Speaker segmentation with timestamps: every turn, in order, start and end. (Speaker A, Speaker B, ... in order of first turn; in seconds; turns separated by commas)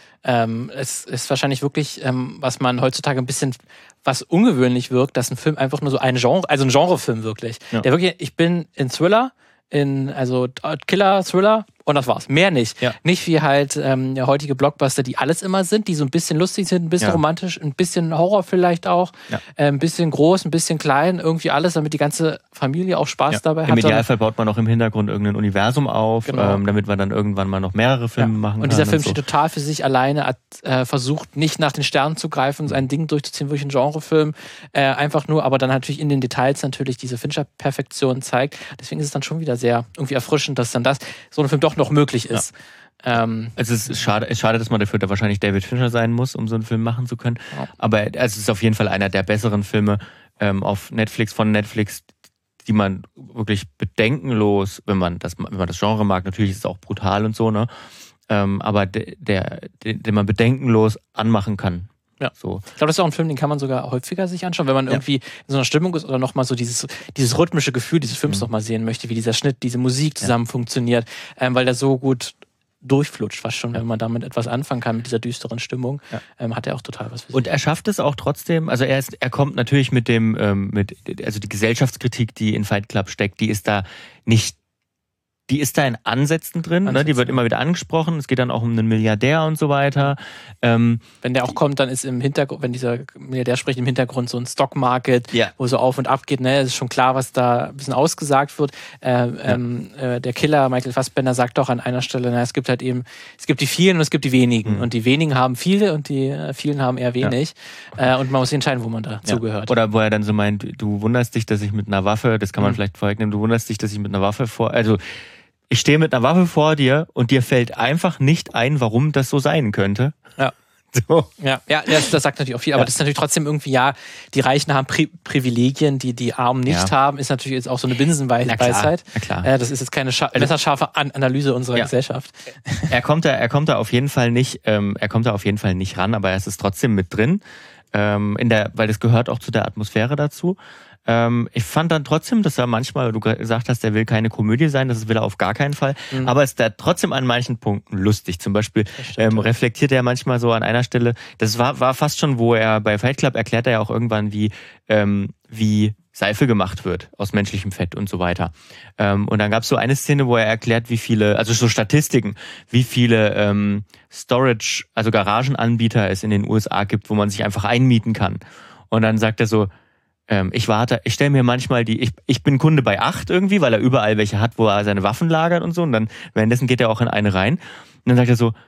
Speaker A: 0.2-24.0, Speaker B: 23.3-29.2, Speaker A: 26.3-26.6, Speaker A: 28.2-43.5, Speaker B: 43.5-52.0, Speaker B: 52.6-57.7, Speaker B: 58.3-62.6, Speaker A: 62.2-77.5, Speaker B: 77.3-84.6, Speaker B: 85.5-91.0, Speaker A: 86.8-87.4, Speaker A: 91.2-109.7, Speaker B: 109.2-115.0, Speaker B: 115.7-120.2, Speaker B: 120.9-121.3, Speaker A: 121.4-132.9, Speaker B: 126.7-126.9, Speaker B: 128.4-129.5, Speaker B: 132.9-137.4, Speaker B: 137.9-169.7, Speaker A: 149.0-149.5, Speaker B: 170.3-178.5